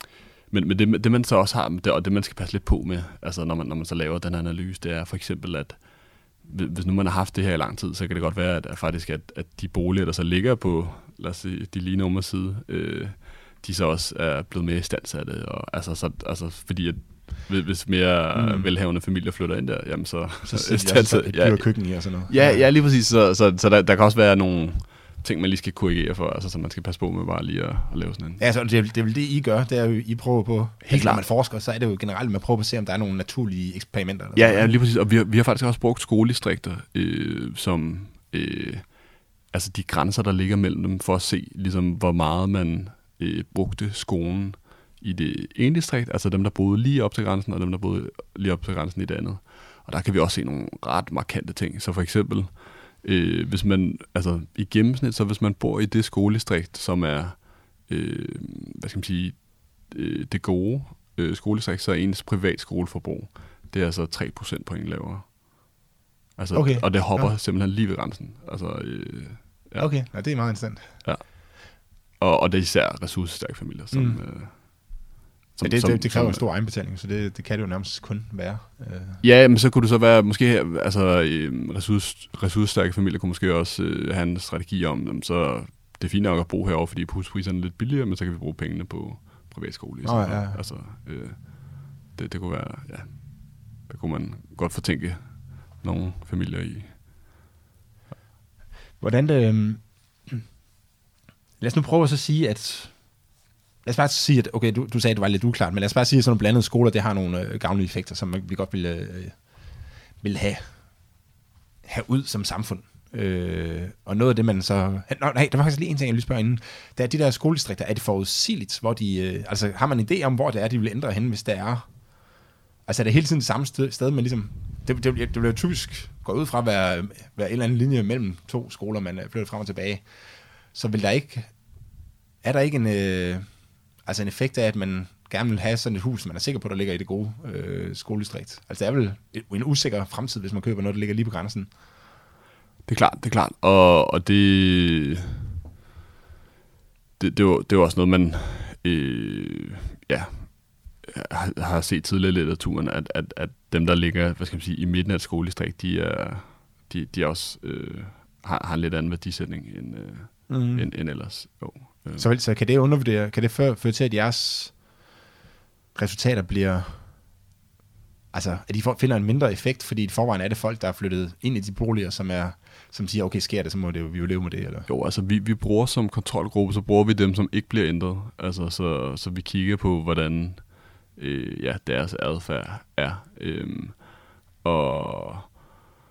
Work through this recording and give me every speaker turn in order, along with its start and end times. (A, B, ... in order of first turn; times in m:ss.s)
0:00.5-0:28.4 A
0:18.3-0:18.7 B
0:20.4-0:22.7 B
0:28.4-0:34.7 B
0:30.8-0:31.3 A
0:34.4-1:05.7 A
1:06.4-1:16.4 A
1:06.5-1:07.3 B
1:09.8-1:11.0 B
1:13.9-1:14.2 B
1:15.6-1:19.2 B
1:19.2-1:37.0 A
1:30.0-1:30.7 B
1:39.0-1:40.5 B
1:41.6-1:51.0 B
1:51.8-2:02.0 B
2:02.9-2:11.6 B
2:12.4-2:21.7 B
2:22.9-2:25.4 A
2:27.2-2:42.3 A
2:40.5-2:40.9 B
2:42.2-2:44.8 B
2:46.0-2:47.1 B
2:48.3-2:54.9 B
2:54.9-3:05.5 A